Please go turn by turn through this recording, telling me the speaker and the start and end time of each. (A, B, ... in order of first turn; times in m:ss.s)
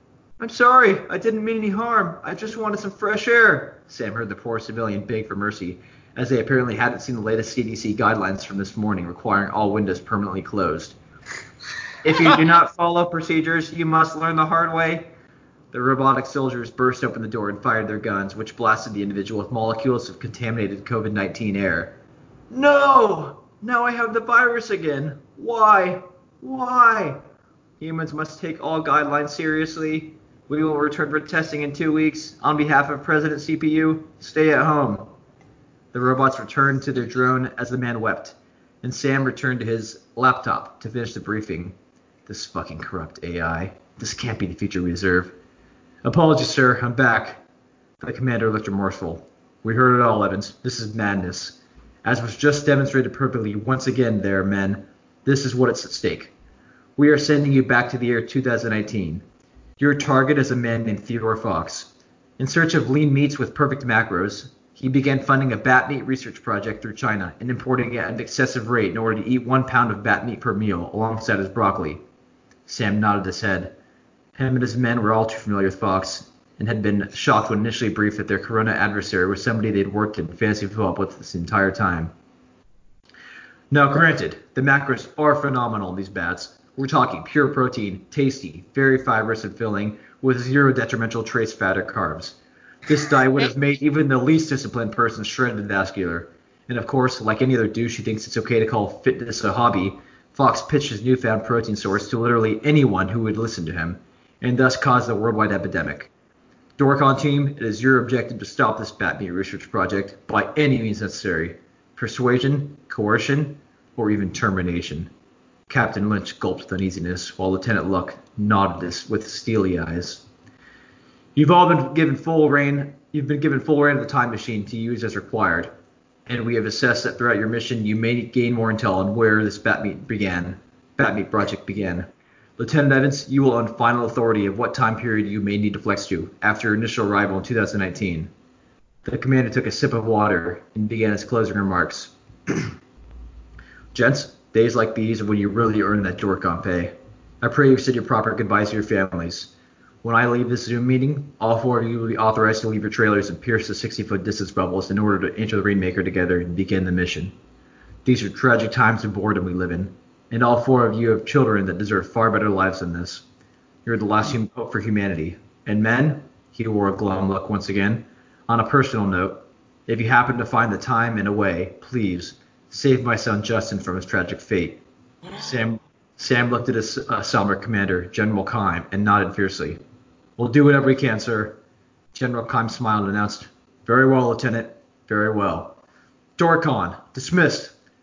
0:00.4-0:11.0 A
0:12.0-0:15.1 A
0:15.7-0:22.0 A
0:22.5-0:27.2 A
0:27.8-0:35.1 A
0:35.9-0:45.4 A
0:46.0-0:47.4 A
0:48.0-0:56.3 A
0:57.0-0:59.2 A
0:59.8-1:12.0 A
1:12.6-1:13.7 A
1:14.4-1:22.1 A
1:23.7-1:46.1 A
1:46.8-1:55.1 A
1:55.7-2:00.2 A
2:01.3-2:05.7 A
2:06.2-2:18.3 A
2:19.0-2:22.7 A
2:23.9-2:29.5 A
2:30.0-2:37.3 A
2:38.0-2:43.2 A
2:43.8-2:59.8 A
3:00.4-3:01.6 A
3:02.1-3:05.8 A
3:06.4-3:07.7 A